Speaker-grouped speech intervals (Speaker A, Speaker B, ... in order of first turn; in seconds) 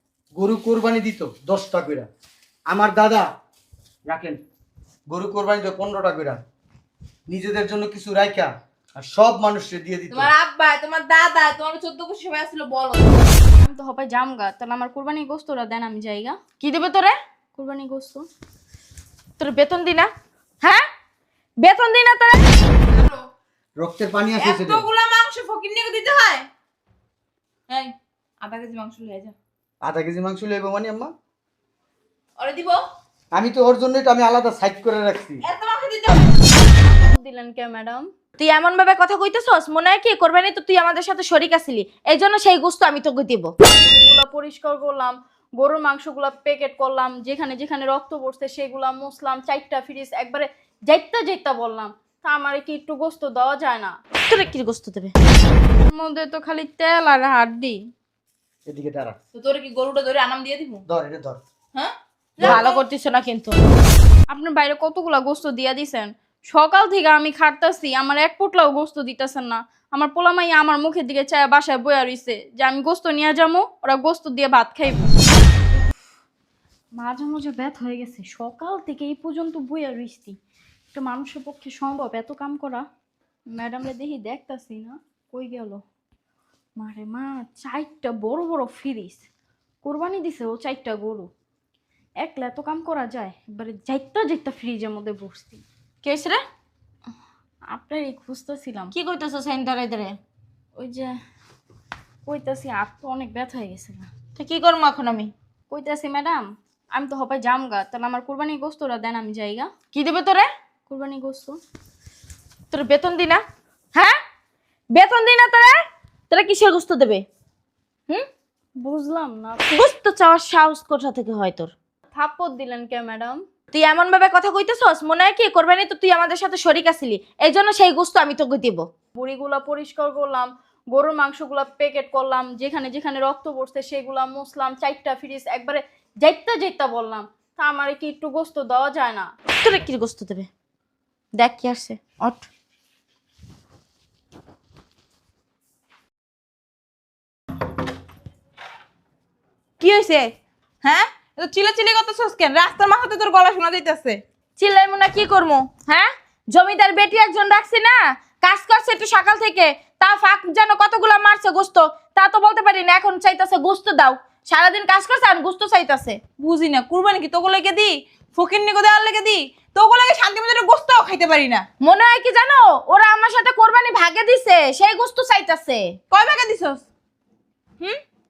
Speaker A: 0.3-2.1, 2.7-3.2, 4.1-4.4, 5.1-6.4, 7.3-10.3, 23.8-24.8, 29.8-31.1, 33.3-35.4, 58.7-59.1, 60.9-61.4
Speaker B: 10.1-13.3, 22.9-23.3, 24.4-26.5, 27.7-29.3, 32.4-32.8, 35.4-36.6, 59.3-60.8, 61.7-62.8, 150.8-154.2, 166.4-171.7, 176.1-176.8
Speaker C: 13.6-16.4, 17.5-18.2, 36.8-38.0, 43.6-54.0, 55.9-57.8, 64.3-75.2, 77.0-80.4, 80.9-82.8, 83.5-85.8, 86.8-89.2, 89.8-91.3, 92.2-95.6, 97.7-98.9, 100.8-101.1, 102.2-104.1, 105.7-109.7, 110.9-111.6, 118.8-119.8, 122.1-123.4, 129.1-139.3
Speaker D: 16.6-17.1, 19.4-20.1, 21.6-22.5, 38.4-43.5, 54.3-55.1, 62.4-63.6, 96.0-96.4, 98.9-100.2, 104.3-105.3, 109.9-110.5, 112.7-113.4, 114.9-115.8, 116.3-117.2, 119.7-121.7, 123.7-128.8, 139.6-140.5, 141.3-142.5, 149.8-150.3, 154.6-166.2, 171.8-175.9